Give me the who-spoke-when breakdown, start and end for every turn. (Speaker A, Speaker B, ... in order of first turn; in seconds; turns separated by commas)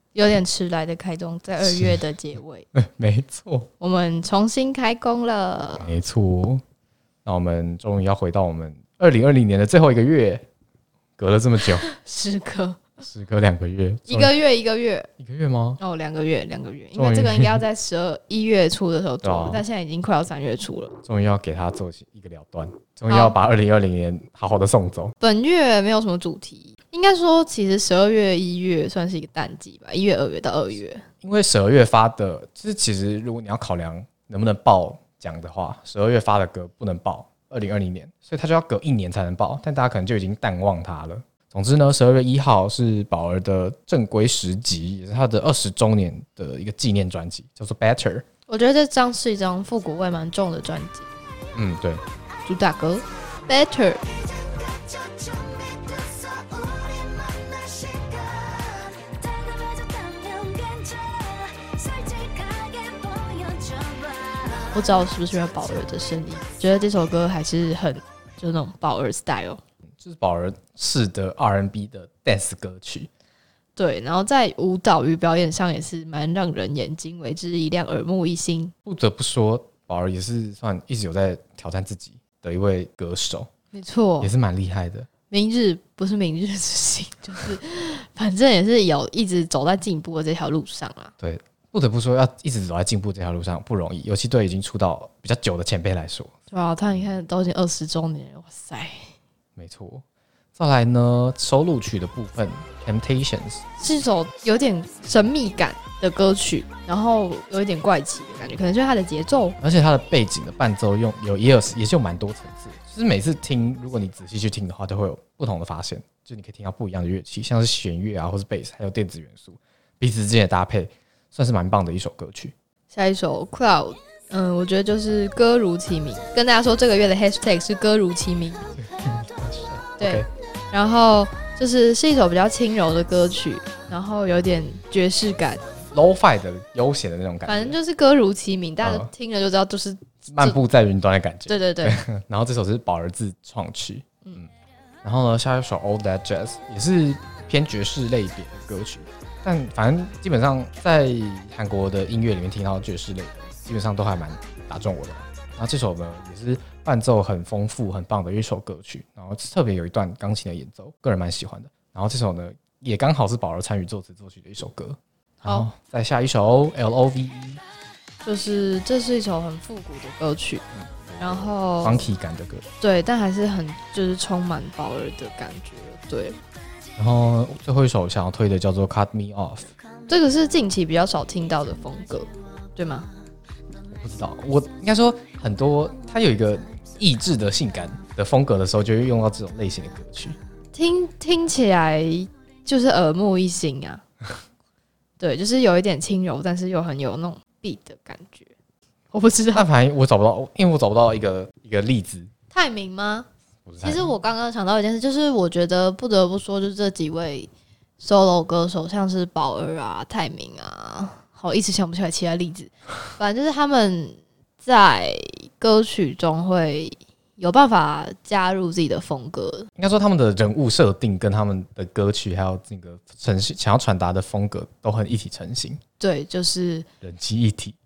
Speaker A: 0.1-2.7, Speaker B: 1.6-2.0, Speaker B: 2.7-3.7, Speaker A: 3.8-5.9, Speaker B: 5.8-6.6, Speaker B: 7.2-10.4, Speaker B: 11.2-11.8, Speaker A: 11.9-12.8, Speaker B: 13.0-14.3, Speaker A: 14.1-15.1, Speaker B: 15.2-15.8, Speaker A: 15.8-20.9, Speaker B: 16.9-17.6, Speaker B: 19.2-19.6, Speaker B: 21.0-25.1, Speaker A: 23.1-23.4, Speaker A: 25.2-31.0, Speaker B: 31.2-48.2, Speaker A: 48.5-51.1, Speaker B: 51.5-52.0, Speaker A: 52.5-54.0, Speaker C: 55.3-58.1, Speaker C: 59.2-64.4, Speaker A: 64.7-69.6, Speaker B: 70.0-73.1, Speaker A: 73.8-78.7, Speaker B: 78.9-83.5, Speaker A: 83.7-84.3, Speaker B: 84.2-85.1, Speaker A: 85.3-91.1, Speaker B: 91.2-96.3, Speaker A: 96.5-99.1, Speaker B: 99.6-100.0, Speaker B: 100.6-103.6, Speaker A: 103.8-109.6, Speaker B: 109.6-122.5, Speaker A: 122.9-128.7, Speaker B: 128.8-130.3, Speaker A: 130.0-135.6, Speaker B: 135.9-137.8, Speaker A: 137.5-140.6, Speaker B: 138.8-139.1, Speaker B: 140.2-144.5, Speaker A: 141.5-142.0, Speaker B: 145.0-167.6, Speaker A: 168.2-170.6, Speaker B: 170.7-172.7, Speaker A: 171.2-172.1, Speaker A: 172.8-176.4, Speaker B: 177.0-179.7, Speaker A: 180.1-183.1, Speaker B: 183.9-190.4, Speaker A: 190.7-194.0, Speaker A: 195.2-198.5, Speaker A: 199.1-199.7, Speaker B: 199.5-202.3, Speaker A: 202.5-203.3, Speaker B: 203.7-204.1, Speaker A: 203.8-219.7, Speaker B: 219.8-225.8, Speaker A: 226.0-226.9, Speaker B: 227.0-227.8